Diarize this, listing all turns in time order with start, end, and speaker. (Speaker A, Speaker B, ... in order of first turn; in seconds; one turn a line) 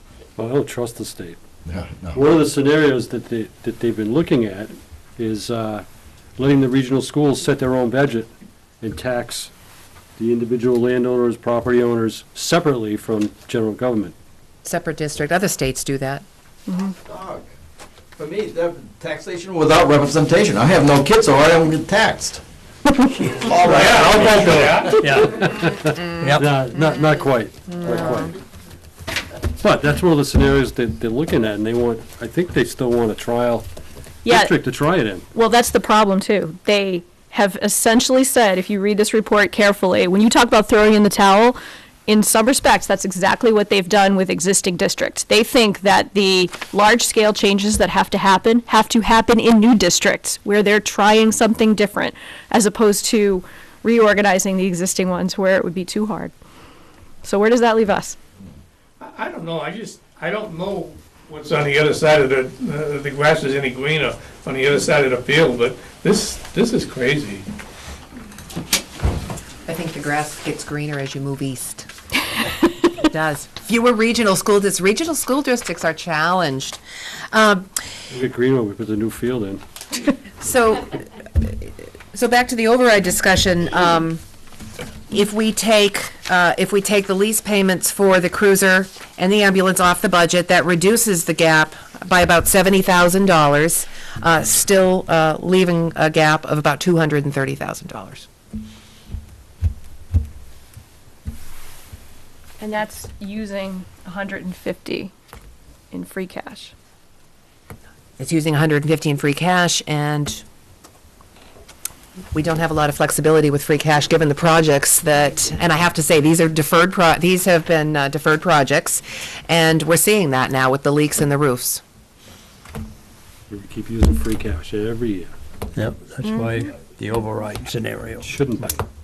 Speaker A: 0.4-1.4
Speaker B: 1.7-2.3
Speaker A: 2.1-5.8
Speaker A: 6.4-8.3
Speaker A: 8.8-9.5
Speaker A: 10.2-14.1
Speaker C: 14.6-16.2
Speaker D: 16.7-16.9
Speaker B: 17.0-17.5
Speaker B: 18.2-22.4
Speaker E: 23.1-26.5
Speaker B: 23.4-24.6
Speaker F: 23.7-25.0
Speaker A: 24.1-28.4
Speaker C: 27.9-28.3
Speaker A: 29.6-33.7
Speaker D: 34.2-34.5
Speaker A: 34.3-35.2
Speaker D: 35.3-56.3
Speaker D: 57.2-58.2
Speaker F: 59.0-67.5
Speaker C: 69.7-71.9
Speaker C: 73.0-76.8
Speaker C: 77.3-77.8
Speaker A: 78.1-79.6
Speaker C: 80.1-84.2
Speaker C: 85.1-98.3
Speaker D: 102.6-105.1
Speaker D: 105.9-106.7
Speaker C: 108.2-110.4
Speaker C: 112.3-121.8
Speaker A: 123.5-125.3
Speaker E: 125.8-128.4
Speaker D: 126.2-126.7
Speaker A: 128.2-128.8